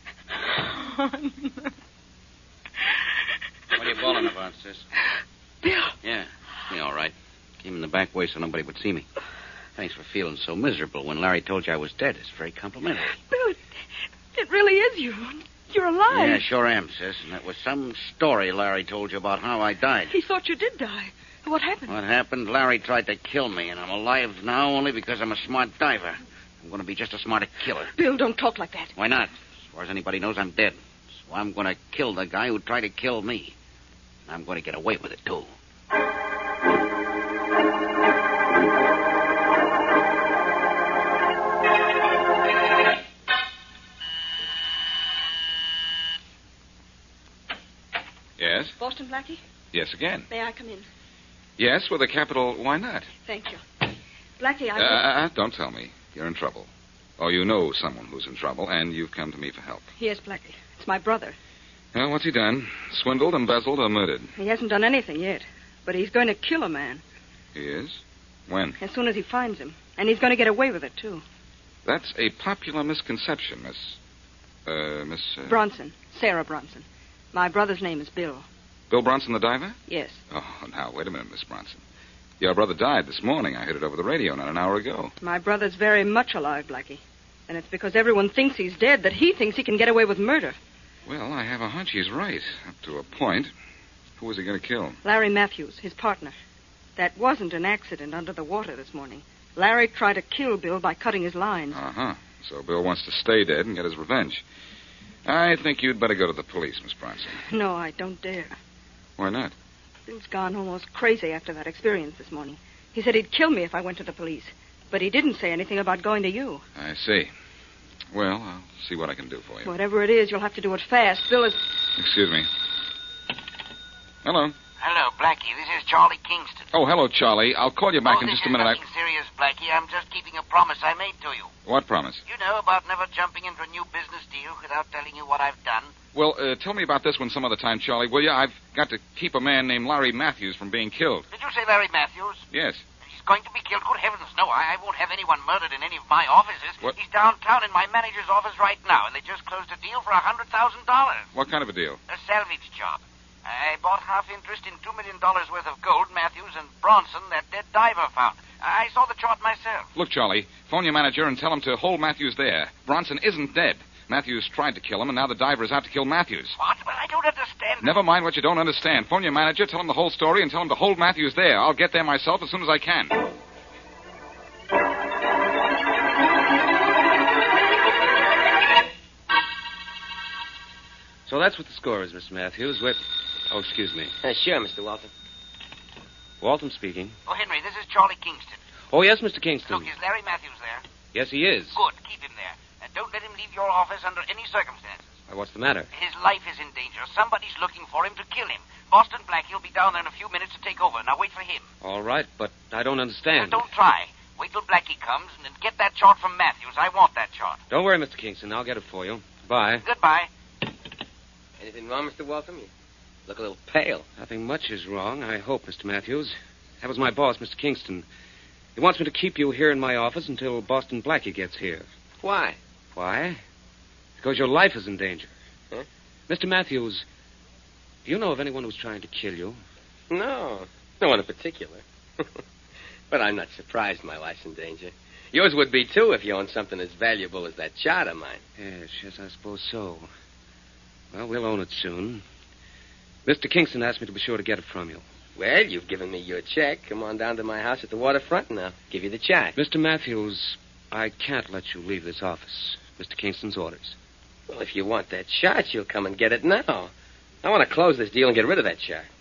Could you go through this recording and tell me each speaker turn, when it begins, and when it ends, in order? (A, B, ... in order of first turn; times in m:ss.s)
0:00.5-0:01.7 A
0:03.7-0:04.8 B
0:05.6-0:05.9 A
0:06.0-0:09.1 B
0:09.8-0:13.1 B
0:13.3-0:13.6 A
0:14.3-0:16.4 A
0:16.1-0:20.1 B
0:20.1-0:21.9 A
0:21.9-0:27.9 B
0:27.9-0:28.9 A
0:29.0-0:33.5 B
0:34.3-0:35.5 B
0:48.4-0:48.7 C
0:48.8-0:49.4 A
0:49.7-0:50.3 C
0:50.3-0:50.8 A
0:51.6-0:53.1 C
0:53.2-0:53.6 A
0:54.4-0:55.0 A
0:54.8-0:59.8 C
1:00.0-1:01.4 A
1:01.9-1:04.3 C
1:04.4-1:07.0 A
1:07.5-1:08.8 C
1:08.8-1:11.2 A
1:11.8-1:14.0 C
1:14.6-1:15.6 C
1:15.5-1:18.4 A
1:18.9-1:19.8 C
1:19.9-1:20.2 A
1:20.3-1:21.8 C
1:22.4-1:25.1 C
1:25.2-1:30.6 A
1:31.0-1:33.5 C
1:34.2-1:35.0 C
1:35.0-1:36.3 A
1:37.0-1:41.8 A
1:41.7-1:44.4 C
1:45.2-1:47.4 C
1:47.4-1:48.6 A
1:49.2-1:49.5 C
1:50.1-1:56.6 A
1:56.8-1:57.3 C
1:58.1-1:59.7 C
1:59.6-2:01.6 A
2:02.0-2:02.5 C
2:04.2-2:04.5 C
2:04.8-2:06.7 B
2:06.7-2:08.8 C
2:08.0-2:11.5 B
2:11.6-2:12.2 C
2:12.2-2:15.9 B
2:16.1-2:21.3 C
2:21.3-2:22.4 B
2:22.5-2:22.8 C
2:23.0-2:31.3 B
2:31.3-2:32.0 C
2:32.1-2:39.9 B
2:39.9-2:46.5 C
2:46.6-2:48.0 B
2:47.8-2:53.2 C
3:01.2-3:04.1 D
3:04.2-3:05.1 E
3:06.4-3:07.1 D
3:07.2-3:08.6 B
3:08.9-3:09.9 D
3:09.7-3:10.8 B
3:11.1-3:11.8 D
3:11.7-3:15.1 B
3:15.3-3:15.9 D
3:15.9-3:21.6 B
3:21.8-3:23.6 D
3:23.3-3:27.6 B
3:27.7-3:29.8 D
3:29.8-3:30.3 B
3:31.6-3:32.7 E
3:33.3-3:34.0 E
3:34.2-3:38.0 D
3:38.8-3:41.9 D
3:42.2-3:42.6 E
3:42.9-3:43.4 D
3:44.2-3:45.3 D
3:46.3-3:47.0 D
3:48.0-3:49.6 D
3:50.1-3:52.3 E
3:53.1-3:58.4 E
3:58.6-4:00.1 D
4:01.1-4:02.2 D
4:03.2-4:05.0 D
4:05.4-4:09.5 E
4:09.6-4:14.0 D
4:14.5-4:16.9 E
4:17.4-4:19.0 E